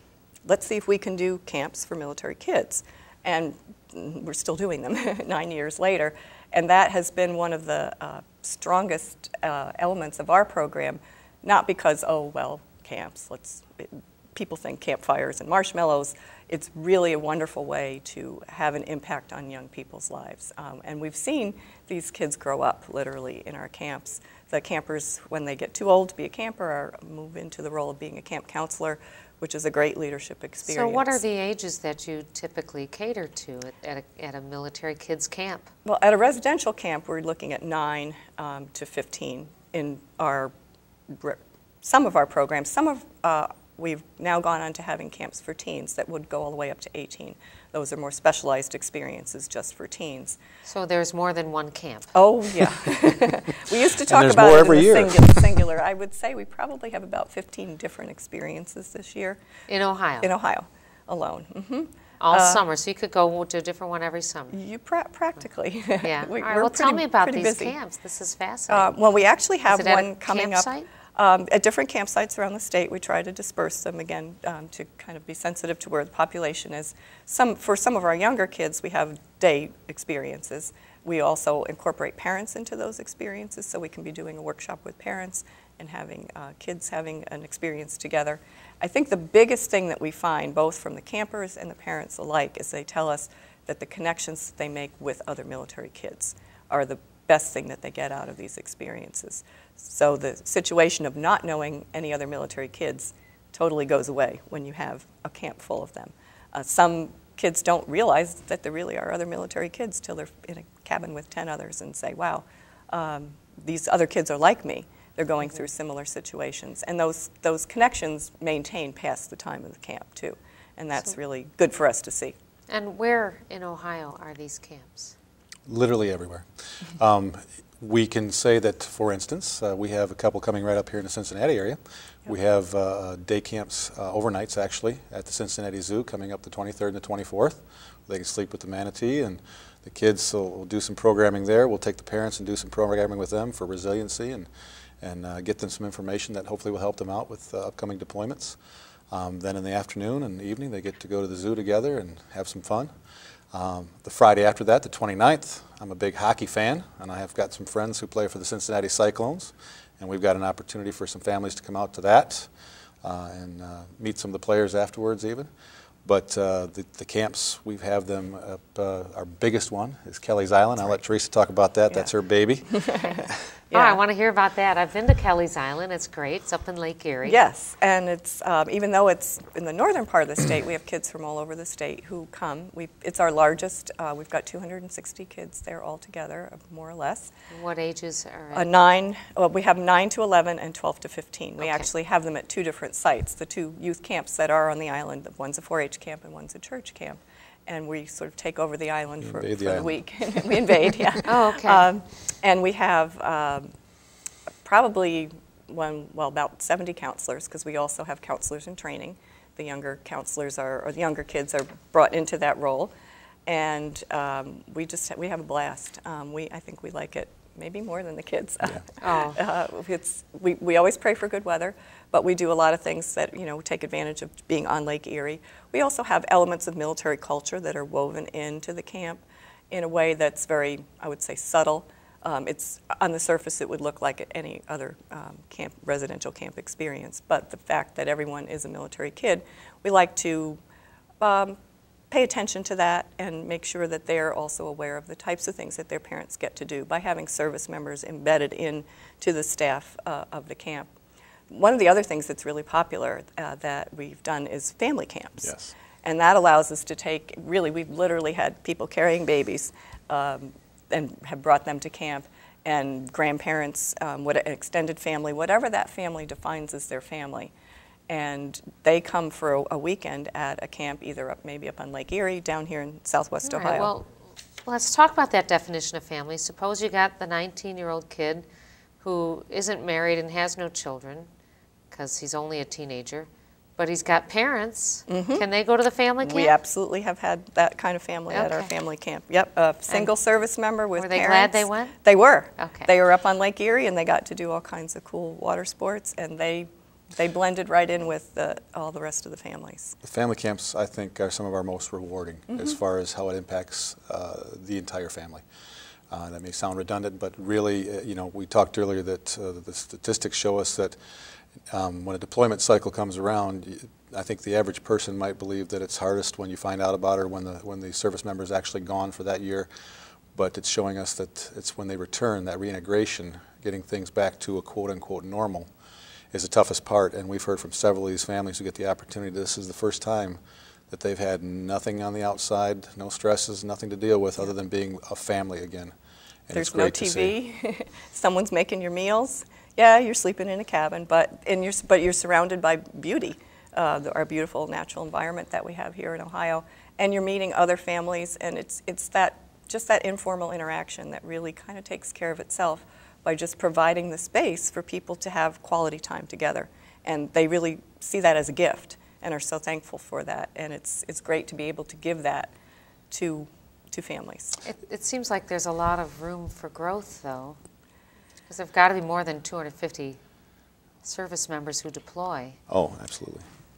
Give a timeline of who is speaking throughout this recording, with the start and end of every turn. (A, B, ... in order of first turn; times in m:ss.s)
0:00.4-0:31.2 A
0:30.7-0:35.7 B
0:35.8-0:40.5 A
0:41.1-0:50.4 A
0:50.6-0:52.1 B
0:52.1-0:59.4 A
0:54.0-0:55.6 C
0:59.7-1:00.3 B
1:00.2-1:02.6 A
1:02.2-1:04.5 B
1:04.5-1:07.8 A
1:06.0-1:09.0 B
1:08.7-2:02.3 A
1:09.7-1:10.9 B
2:02.7-2:05.1 B
2:05.6-2:24.5 C
2:25.0-2:28.6 C
2:29.1-2:32.9 C
2:33.5-2:42.5 C
2:43.0-2:45.5 C
2:46.0-2:53.4 C
2:52.7-2:53.2 A
2:53.7-2:54.0 A
2:53.7-2:57.4 B
2:57.2-3:07.3 A
3:07.5-3:08.7 B
3:08.5-3:23.7 A
3:11.6-3:11.9 B
3:19.2-3:19.9 C
3:21.2-3:21.9 B
3:24.6-3:32.9 A
3:33.4-4:00.6 A
3:39.0-3:39.4 B
4:01.2-4:01.6 A
4:02.1-4:10.9 A
4:11.5-4:27.5 A
4:15.4-4:15.7 C
4:28.1-4:33.9 A
4:33.4-4:38.4 B
4:39.0-4:41.3 B
4:41.9-4:46.5 B
4:45.1-4:45.4 A
4:46.2-5:00.0 A
4:48.3-4:48.7 B
4:51.0-4:51.9 B
4:52.6-4:52.9 B
5:00.0-5:05.4 C
5:06.1-5:11.0 C
5:11.7-5:19.7 C
5:20.3-5:25.7 C
5:26.3-5:35.9 C
5:36.5-5:37.4 C
5:36.5-6:02.5 A
6:03.1-6:04.6 A
6:04.6-6:07.6 B
6:08.5-6:10.2 B
6:11.0-6:12.6 B
6:12.7-6:13.4 C